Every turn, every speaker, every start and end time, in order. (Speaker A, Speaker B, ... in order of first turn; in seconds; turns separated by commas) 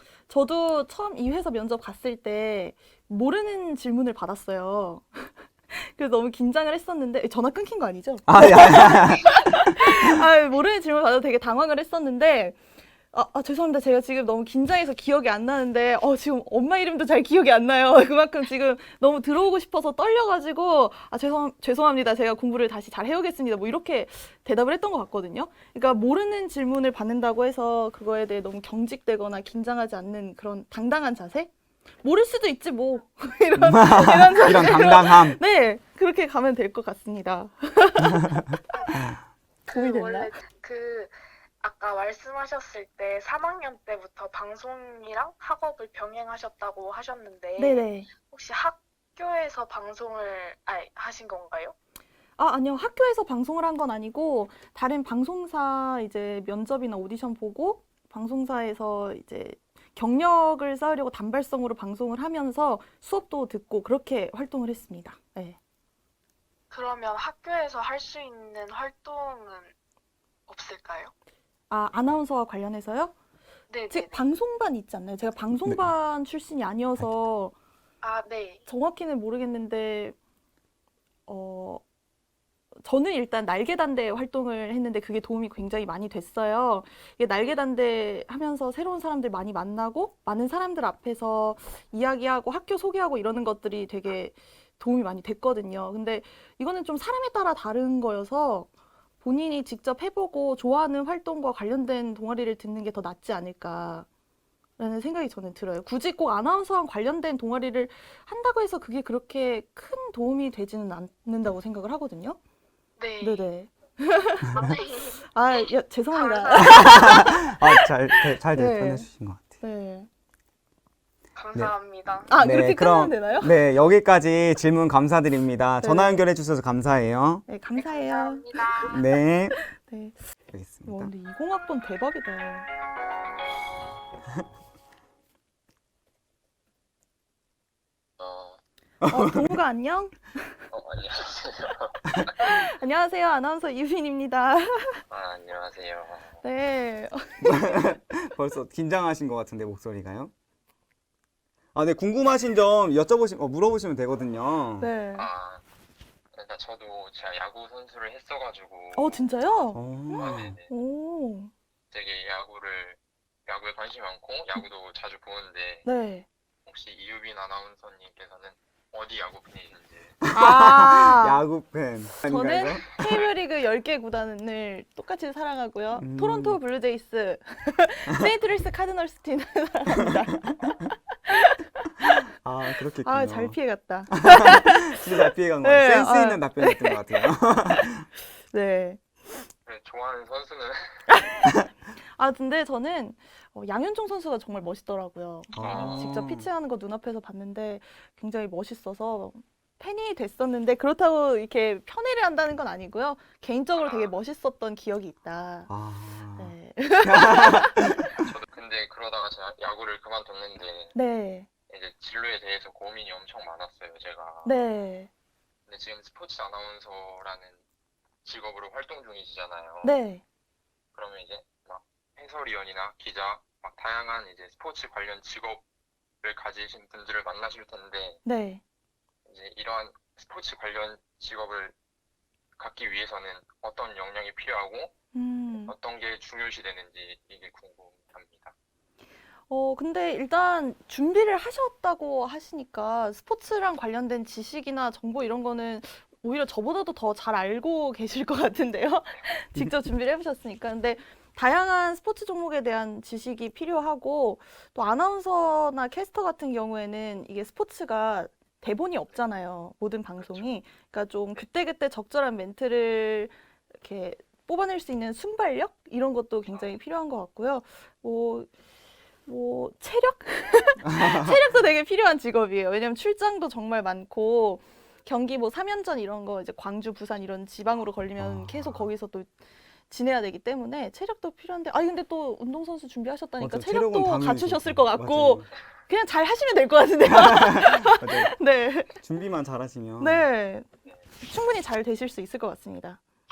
Speaker A: 0.3-12.6, Speaker B: 8.3-9.7, Speaker A: 13.1-31.5, Speaker A: 32.0-39.1, Speaker B: 33.5-35.4, Speaker A: 39.6-40.3, Speaker C: 39.7-51.7, Speaker A: 47.6-48.1, Speaker A: 52.4-65.6, Speaker C: 66.7-69.7, Speaker C: 70.5-71.1, Speaker A: 71.7-73.1, Speaker C: 73.7-74.2, Speaker A: 73.9-77.5, Speaker C: 78.0-78.6, Speaker A: 78.7-80.2, Speaker A: 81.3-81.8, Speaker A: 82.8-98.7, Speaker A: 99.2-104.1, Speaker A: 104.8-112.4, Speaker C: 113.0-113.5, Speaker A: 113.2-119.1, Speaker C: 114.5-115.2, Speaker C: 116.1-117.2, Speaker B: 116.5-119.6, Speaker A: 119.6-120.1, Speaker C: 121.3-122.4, Speaker A: 122.3-123.5, Speaker B: 122.3-127.4, Speaker A: 125.8-126.2, Speaker A: 127.5-128.9, Speaker C: 127.7-129.0, Speaker B: 128.9-129.6, Speaker A: 129.6-130.1, Speaker B: 130.5-131.1, Speaker A: 130.8-132.7, Speaker D: 138.2-138.6, Speaker B: 139.0-139.5, Speaker A: 139.1-140.5, Speaker D: 140.7-142.3, Speaker A: 142.4-145.0, Speaker D: 145.1-146.4, Speaker A: 146.4-147.8, Speaker B: 147.4-150.3, Speaker B: 151.7-154.9, Speaker A: 154.8-155.3, Speaker D: 155.1-155.6, Speaker D: 156.3-159.3, Speaker A: 158.9-161.5, Speaker B: 159.7-160.6, Speaker D: 160.1-160.7, Speaker D: 161.9-165.8, Speaker A: 165.8-166.3, Speaker D: 166.6-170.2, Speaker B: 170.2-172.9, Speaker A: 170.3-171.4, Speaker A: 172.2-182.2, Speaker D: 173.0-173.3, Speaker B: 176.0-176.6, Speaker B: 182.4-183.6, Speaker A: 183.0-184.9, Speaker B: 184.1-188.1, Speaker A: 185.6-187.2, Speaker A: 188.5-189.0, Speaker D: 189.7-191.1, Speaker A: 191.1-191.5, Speaker A: 192.1-205.7, Speaker B: 195.5-196.5, Speaker D: 195.6-196.2, Speaker D: 203.7-204.1, Speaker B: 205.7-208.0, Speaker A: 206.4-207.9, Speaker D: 208.2-210.9, Speaker A: 210.9-211.5, Speaker D: 211.7-214.6, Speaker A: 214.4-215.1, Speaker D: 215.7-217.6, Speaker D: 218.2-219.9, Speaker A: 219.8-220.2, Speaker D: 220.9-225.6, Speaker D: 226.2-228.2, Speaker A: 228.2-228.6, Speaker D: 229.2-231.7, Speaker D: 232.6-234.9, Speaker A: 235.1-235.7, Speaker D: 235.7-238.5, Speaker A: 239.5-268.5, Speaker D: 260.2-260.4, Speaker A: 269.2-279.3, Speaker B: 278.2-278.9, Speaker A: 279.9-288.9, Speaker B: 283.4-285.5, Speaker B: 287.0-288.3, Speaker B: 289.0-290.2, Speaker A: 290.0-290.7, Speaker A: 291.2-293.0